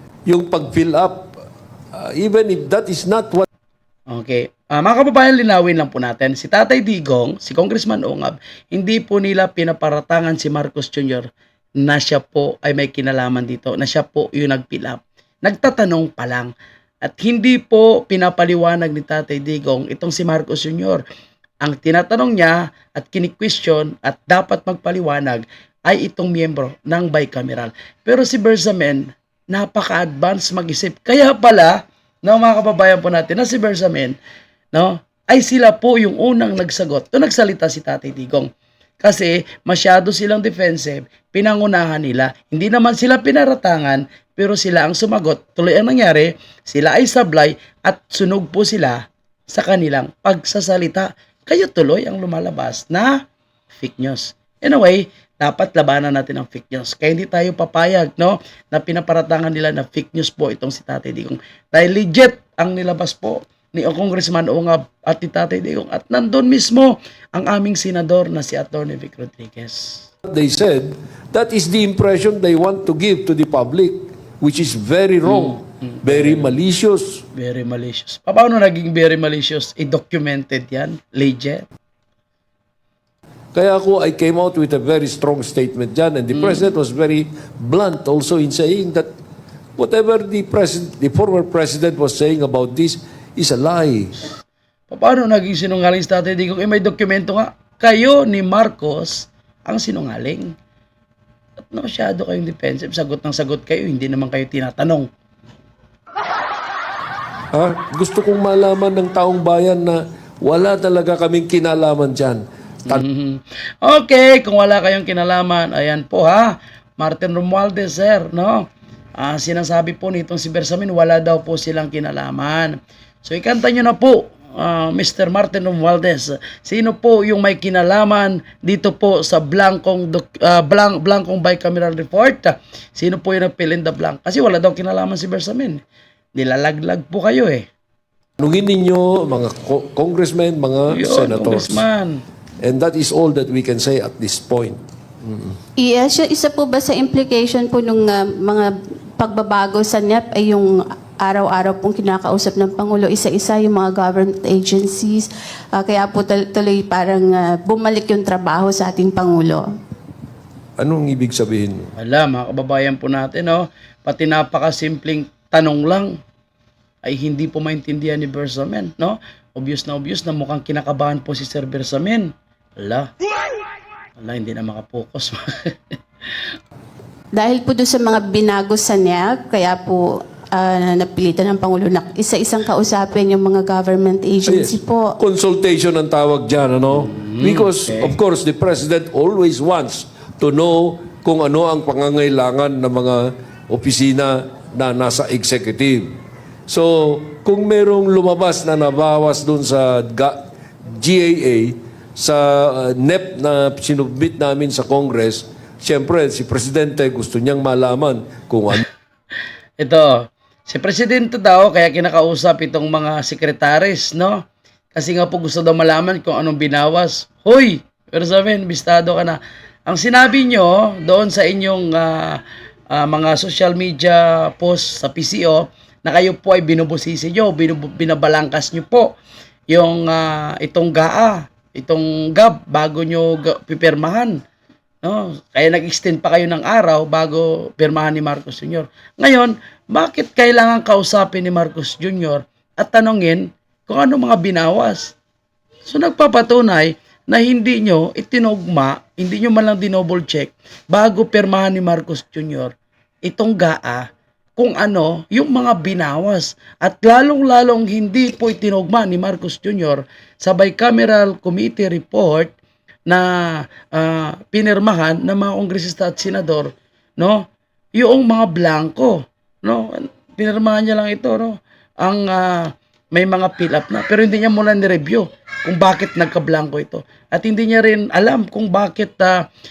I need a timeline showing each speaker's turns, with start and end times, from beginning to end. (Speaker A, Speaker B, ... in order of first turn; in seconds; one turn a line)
Speaker A: 0.2-1.4
Speaker A: 1.9-3.5
Speaker B: 4.1-11.3
Speaker B: 11.8-16.5
Speaker B: 17.0-21.0
Speaker B: 21.6-34.1
Speaker B: 34.7-38.5
Speaker B: 39.0-53.2
Speaker B: 53.8-70.1
Speaker A: 70.2-77.2
Speaker B: 75.2-76.5
Speaker B: 77.3-81.7
Speaker A: 83.5-89.1
Speaker B: 86.3-86.7
Speaker A: 89.8-94.3
Speaker B: 94.9-100.5
Speaker B: 101.7-105.1
Speaker A: 107.5-113.0
Speaker B: 112.9-118.7
Speaker B: 119.2-135.8
Speaker B: 136.3-137.7
Speaker A: 138.4-141.8
Speaker B: 140.9-142.2
Speaker A: 142.6-145.6
Speaker C: 145.8-148.7
Speaker C: 149.2-159.6
Speaker A: 160.8-161.9
Speaker B: 162.0-166.2
Speaker B: 167.0-173.1
Speaker B: 174.2-175.7
Speaker C: 177.3-185.1
Speaker A: 184.4-196.1
Speaker B: 186.9-188.2
Speaker A: 196.7-208.8
Speaker B: 209.8-214.4
Speaker B: 214.9-222.4
Speaker B: 222.9-229.2
Speaker B: 229.7-234.4
Speaker B: 235.0-245.1
Speaker B: 245.8-252.7
Speaker B: 253.2-262.5
Speaker B: 263.1-267.4
Speaker B: 267.9-279.4